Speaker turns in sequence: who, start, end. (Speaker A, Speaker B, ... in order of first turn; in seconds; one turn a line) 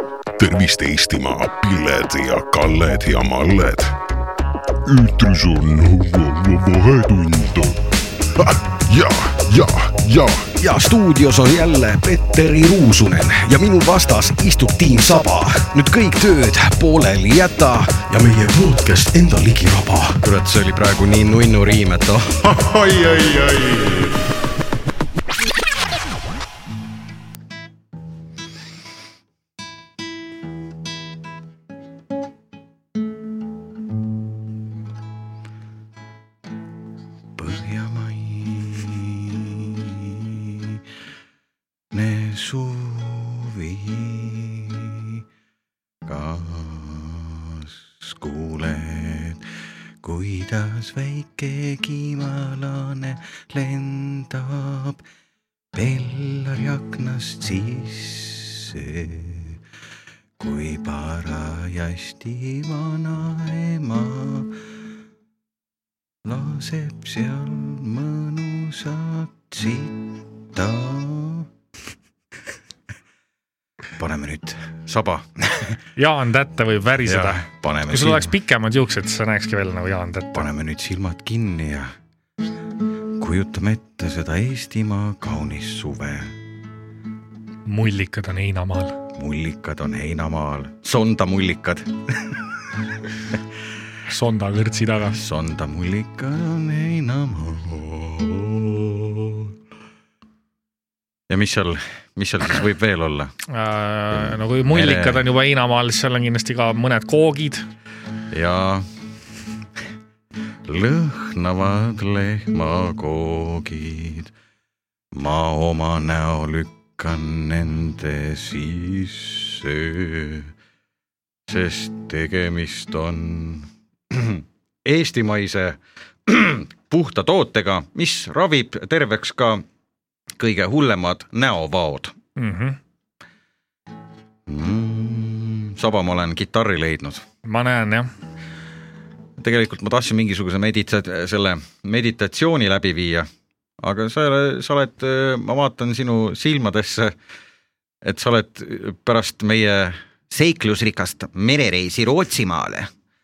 Speaker A: 0.4-4.0
Speaker A: 4.8-7.8
Speaker A: 8.3-10.5
Speaker B: 10.6-24.2
Speaker B: 37.4-40.8
Speaker B: 41.9-45.2
Speaker B: 46.0-49.5
Speaker B: 50.0-55.0
Speaker B: 55.7-59.6
Speaker B: 60.4-64.6
Speaker B: 66.2-71.5
Speaker B: 74.0-75.8
Speaker C: 76.0-80.5
Speaker B: 77.0-78.3
Speaker B: 80.3-81.9
Speaker B: 83.2-86.3
Speaker C: 87.7-89.0
Speaker B: 89.2-92.5
Speaker C: 94.1-95.2
Speaker B: 95.1-99.5
Speaker B: 101.3-103.3
Speaker C: 103.5-107.7
Speaker B: 104.1-105.2
Speaker B: 108.3-108.8
Speaker B: 110.6-114.3
Speaker B: 115.1-120.5
Speaker B: 121.5-129.6
Speaker B: 130.4-132.1
Speaker C: 132.4-132.8
Speaker B: 134.5-137.2
Speaker C: 137.4-138.1
Speaker B: 139.4-143.3
Speaker B: 143.8-147.1
Speaker B: 148.0-152.9